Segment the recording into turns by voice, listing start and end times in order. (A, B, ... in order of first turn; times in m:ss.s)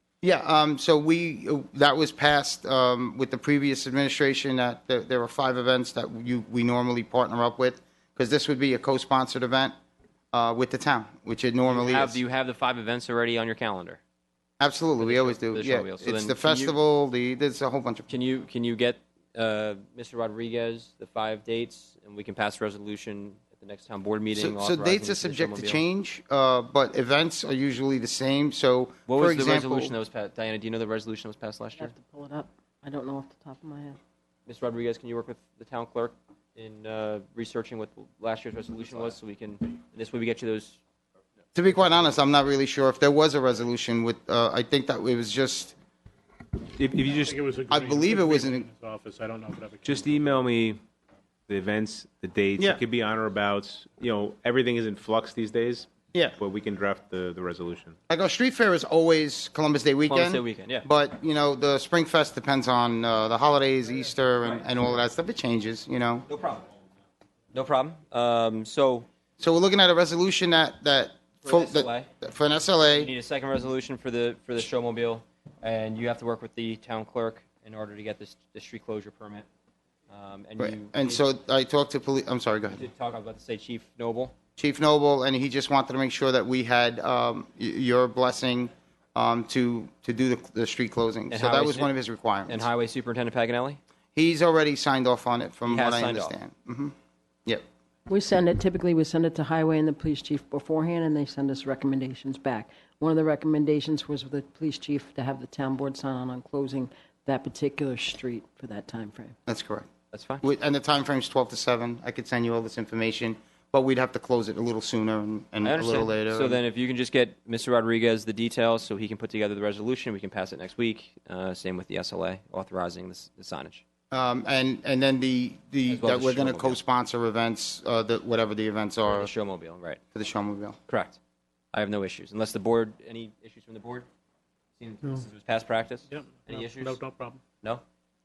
0:00.2-0:09.7 A
0:10.3-0:12.2 A
0:11.7-0:14.0 B
0:14.6-0:18.1 A
0:15.0-0:16.8 B
0:18.1-0:25.8 B
0:24.3-0:30.0 A
0:29.1-0:31.9 B
0:31.9-0:34.0 C
0:34.5-0:40.8 B
0:41.6-0:45.8 A
0:46.8-0:47.5 D
0:47.3-0:50.0 E
0:47.7-0:48.7 A
0:49.8-0:50.8 D
0:51.5-0:58.0 D
0:58.1-1:06.3 A
1:00.0-1:00.9 B
1:06.3-1:06.7 B
1:07.5-1:09.1 B
1:09.4-1:13.1 A
1:11.4-1:12.1 B
1:12.8-1:19.5 B
1:20.1-1:21.3 B
1:20.6-1:22.8 A
1:22.7-1:24.3 B
1:24.6-1:32.7 A
1:31.3-1:31.9 B
1:32.5-1:33.8 B
1:34.2-1:36.9 A
1:35.7-1:36.4 B
1:38.1-1:49.4 C
1:49.5-1:49.9 A
1:50.1-1:50.5 B
1:50.4-1:56.6 A
1:55.6-2:03.8 B
2:04.1-2:09.3 A
2:05.8-2:06.8 B
2:09.1-2:10.0 B
2:10.1-2:10.8 A
2:10.9-2:11.2 B
2:11.7-2:14.1 B
2:14.8-2:17.0 B
2:16.1-2:17.4 E